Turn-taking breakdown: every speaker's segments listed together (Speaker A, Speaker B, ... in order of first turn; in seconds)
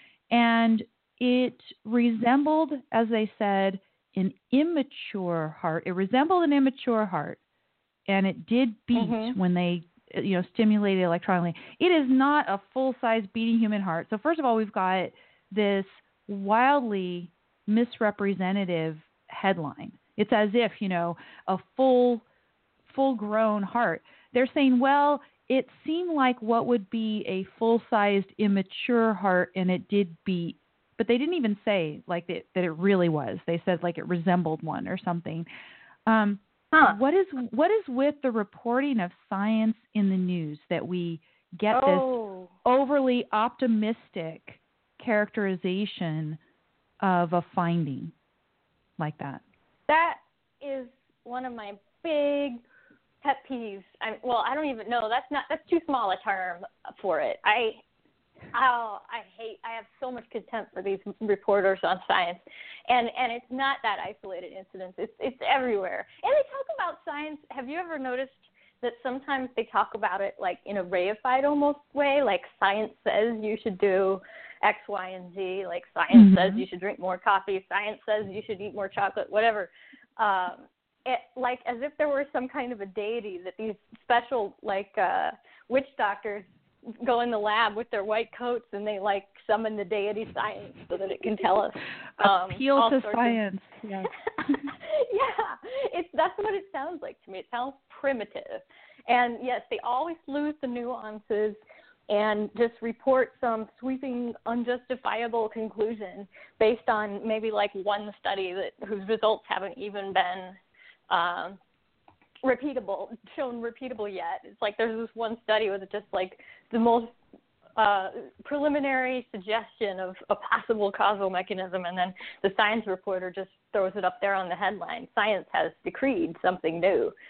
Speaker A: 0.3-7.4, 8.1-22.2, 22.9-35.5, 36.1-42.1, 42.6-46.4, 47.0-48.1, 49.0-49.4, 76.1-76.6, 92.2-94.1
Speaker B: 8.9-9.4, 41.7-42.5, 49.9-52.6, 53.2-57.8, 58.5-86.5, 87.0-93.4, 94.7-101.6, 102.1-110.6, 111.1-111.6, 112.4-117.1, 117.8-127.1